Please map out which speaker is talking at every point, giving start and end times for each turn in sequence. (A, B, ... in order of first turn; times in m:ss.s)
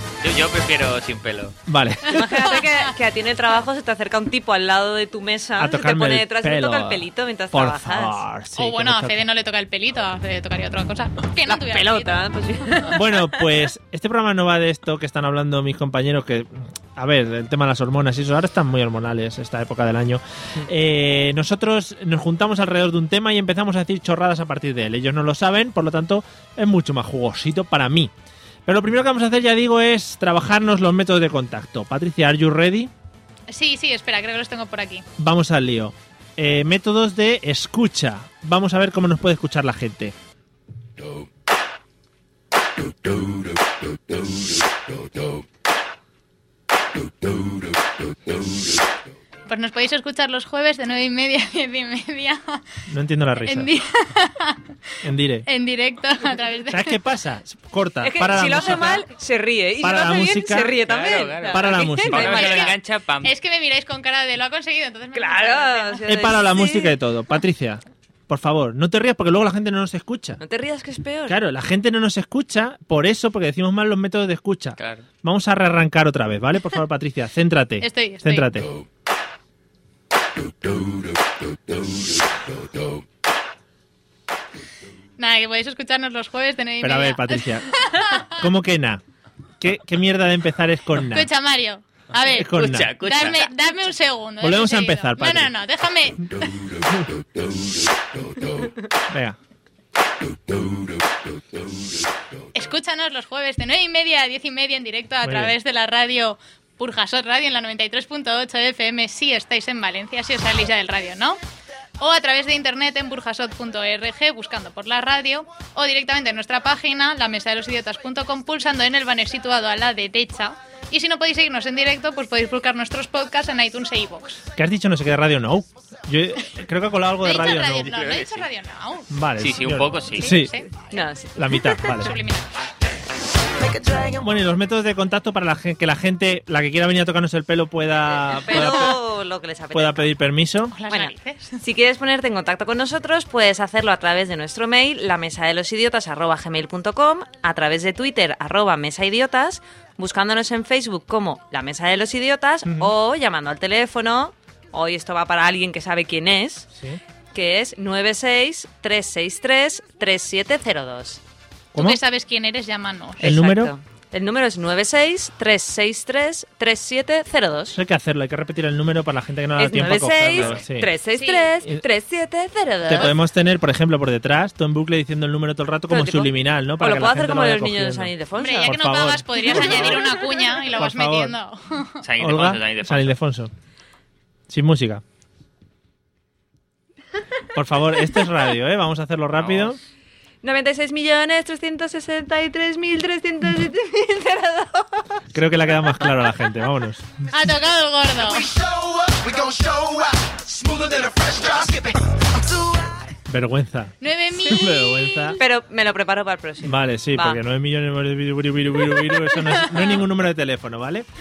0:00.2-0:01.6 A
0:01.6-0:02.6 B
0:02.1-0:08.2 C
0:05.6-0:09.2 B
0:08.6-0:12.2 D
0:11.4-0:13.2 C
0:12.9-0:28.1 B
0:28.6-0:32.9 B
0:33.5-0:35.0 D
0:35.2-0:40.1 B
0:49.5-0:52.6 D
0:52.9-0:53.7 B
0:53.4-0:54.6 D
0:55.0-0:55.5 B
0:55.5-0:56.9 D
0:56.7-0:59.1 B
0:58.0-1:02.6 C
0:59.8-1:00.8 B
1:00.8-1:03.3 A
1:01.5-1:02.6 B
1:02.2-1:06.3 D
1:05.1-1:06.8 C
1:06.1-1:10.4 B
1:10.4-1:11.4 C
1:11.3-1:18.7 B
1:14.8-1:15.0 A
1:17.8-1:18.5 D
1:25.2-1:28.4 D
1:26.8-1:27.7 B
1:28.3-1:29.0 B
1:29.6-1:31.3 B
1:31.0-1:36.5 D
1:32.3-1:33.0 B
1:32.5-1:33.5 A
1:34.4-1:35.6 B
1:36.8-1:37.0 B
1:39.1-1:39.4 B
1:42.5-1:51.4 D
1:45.2-1:45.5 B
1:52.0-2:04.4 D
2:04.6-2:07.9 B
2:07.2-2:09.1 D
2:07.8-2:08.5 A
2:09.1-2:10.5 B
2:09.4-2:10.4 A
2:10.2-2:10.7 D
2:10.9-2:11.6 C
2:11.3-2:12.2 B
2:11.8-2:12.5 D
2:14.0-2:19.0 B
2:18.1-2:20.1 C
2:19.7-2:20.7 B
2:20.7-2:21.6 D
2:20.9-2:36.7 C
2:32.6-2:32.9 B
2:36.7-2:37.0 B
2:37.3-2:41.2 C
2:41.7-2:42.0 B
2:41.8-2:43.3 D
2:43.2-2:43.7 B
2:43.2-2:47.8 C
2:47.7-2:50.9 B
2:49.6-2:53.2 C
2:51.1-2:51.5 D
2:52.8-3:01.4 B
2:55.9-2:58.8 C
2:58.4-3:02.0 D
3:02.0-3:03.1 A
3:02.2-3:03.5 B
3:04.5-3:05.0 B
3:07.5-3:09.8 B
3:09.3-3:09.8 A
3:10.4-3:15.2 C
3:15.3-3:17.1 B
3:17.3-3:18.5 D
3:18.5-3:21.8 E
3:23.3-3:25.4 B
3:24.0-3:25.4 D
3:25.4-3:27.4 C
3:26.6-3:31.0 B